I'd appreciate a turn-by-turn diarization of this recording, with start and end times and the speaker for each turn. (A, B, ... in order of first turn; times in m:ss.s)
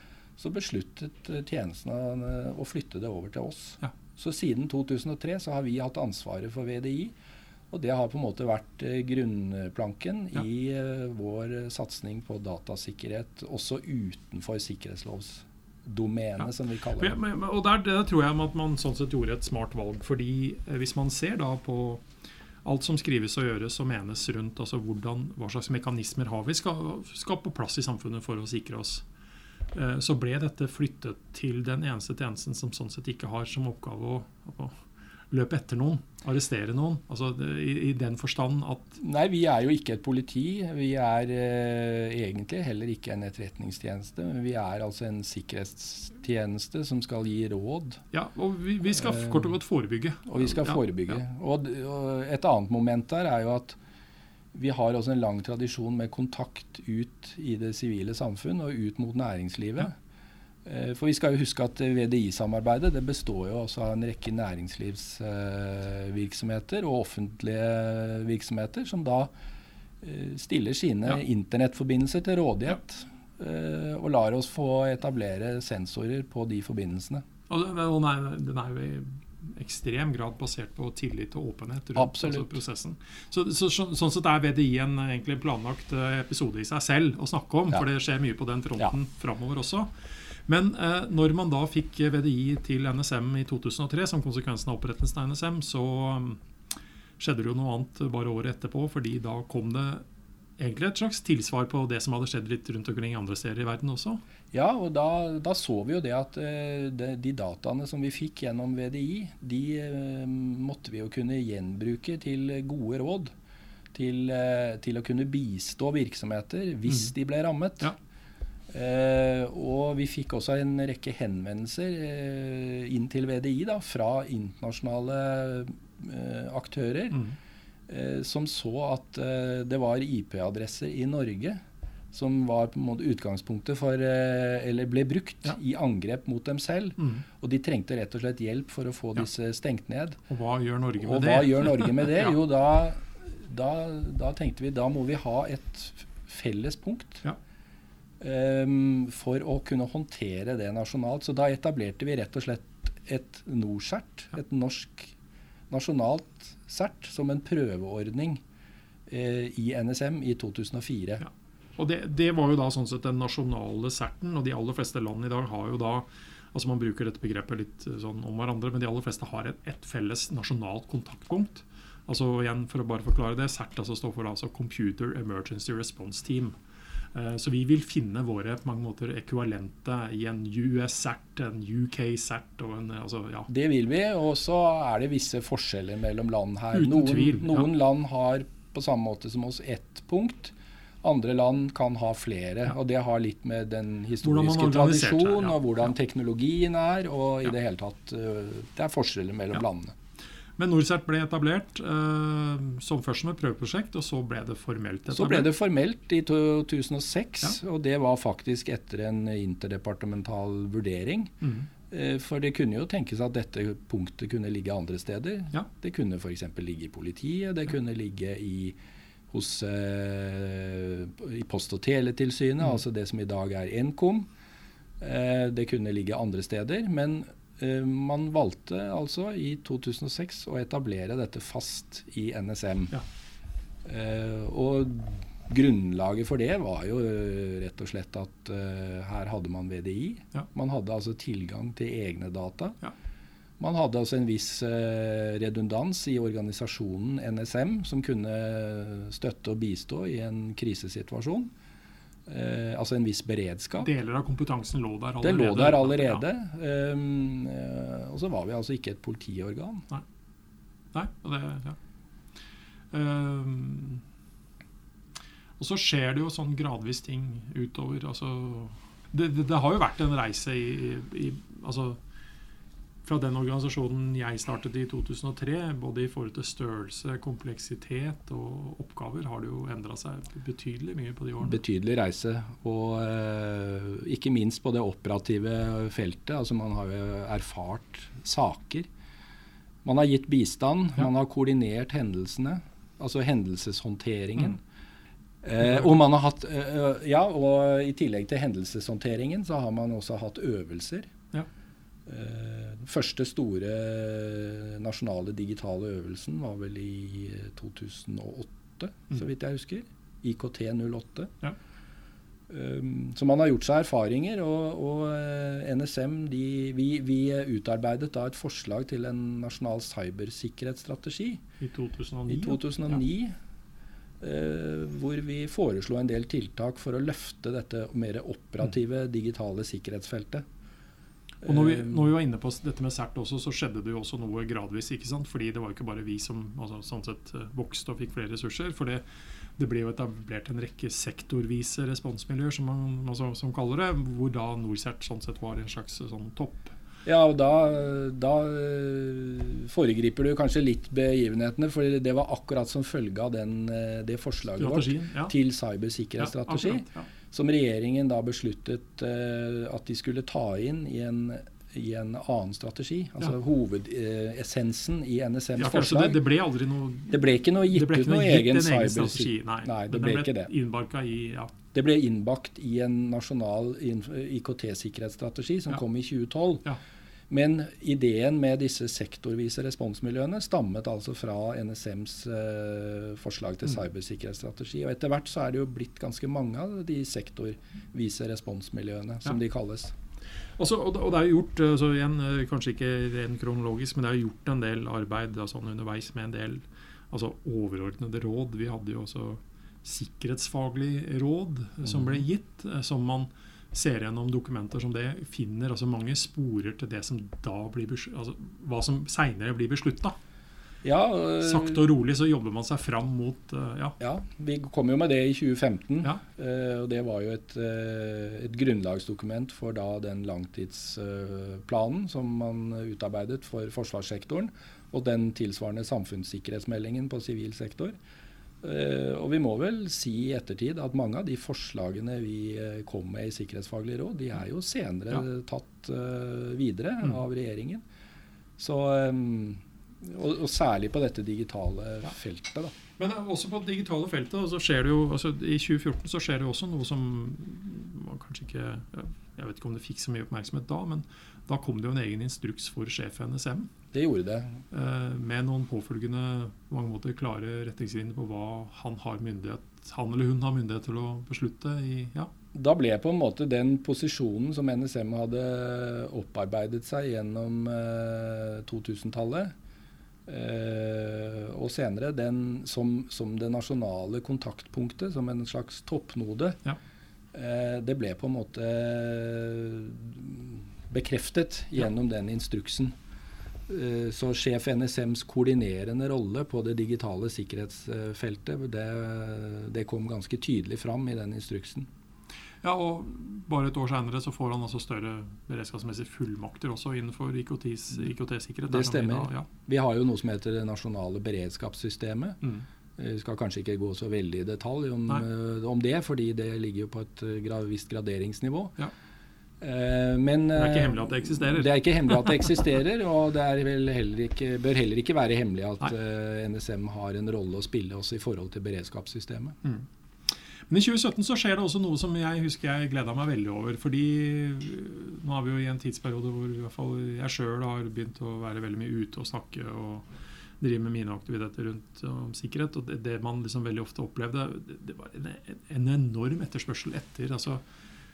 0:00.4-0:07.2 A
0:07.7-0:17.2 A
0:17.0-0:22.0 B
0:22.6-0:29.0 B
0:29.7-0:39.0 B
0:39.0-0:48.0 A
0:48.1-0:50.8 B
0:49.0-0:49.5 A
0:50.3-0:53.8 A
0:54.5-1:00.0 A
1:00.6-1:09.3 A
1:10.0-1:17.2 A
1:17.5-1:36.4 B
1:22.0-1:22.5 A
1:37.2-1:40.0 B
1:40.6-1:44.2 B
1:44.5-1:53.3 A
1:53.9-1:57.9 A
1:58.7-2:07.2 A
2:07.9-2:11.6 A
2:12.1-2:20.2 A
2:17.0-2:17.2 B
2:20.3-2:22.3 B
2:21.0-2:27.2 A
2:28.2-2:35.1 A
2:35.7-2:38.4 A
2:39.1-2:41.2 A
2:41.2-2:56.5 B
2:57.1-3:03.5 B
3:03.5-3:20.0 A
3:06.7-3:07.7 B
3:14.2-3:15.6 B
3:20.6-3:25.5 B
3:25.1-3:31.3 A
3:31.4-3:31.7 B
3:31.9-3:38.8 A
3:39.3-3:44.3 A
3:45.0-3:53.0 A
3:53.8-4:02.8 A
4:03.6-4:11.5 A
4:12.3-4:13.9 A
4:13.8-4:16.2 B
4:15.2-4:19.9 A
4:20.9-4:21.8 B
4:22.9-4:24.0 B
4:25.6-4:32.0 B
4:33.0-4:41.6 B
4:41.4-4:48.9 A
4:49.8-4:54.6 A
4:55.4-5:01.1 A
4:55.6-4:55.9 B
5:02.1-5:11.3 A
5:12.5-5:21.4 A
5:21.6-5:23.0 B
5:22.3-5:23.3 A
5:24.2-5:30.4 A
5:31.4-5:39.0 B
5:31.4-5:32.1 A
5:39.6-5:46.7 B
5:47.0-6:06.2 A
5:54.6-5:55.3 B
5:56.2-5:57.1 B
6:05.6-6:11.5 B
6:07.1-6:10.5 A
6:11.7-6:16.6 A
6:17.3-6:30.0 A
6:30.6-6:50.2 B
6:41.9-6:42.2 A
6:50.8-6:51.8 A
6:51.4-6:54.0 B
6:54.0-7:08.0 A
7:08.6-7:17.8 A
7:18.6-7:22.8 A
7:23.0-7:33.7 B
7:33.9-7:34.6 A
7:34.7-7:42.3 B
7:42.5-7:49.5 A
7:50.3-7:56.6 A
7:57.3-8:02.9 A
8:03.7-8:11.9 A
8:12.6-8:19.5 B
8:18.7-8:22.4 A
8:23.0-8:28.8 A
8:29.6-8:39.6 A
8:30.6-8:32.4 B
8:40.7-8:50.1 B
8:50.6-8:57.6 B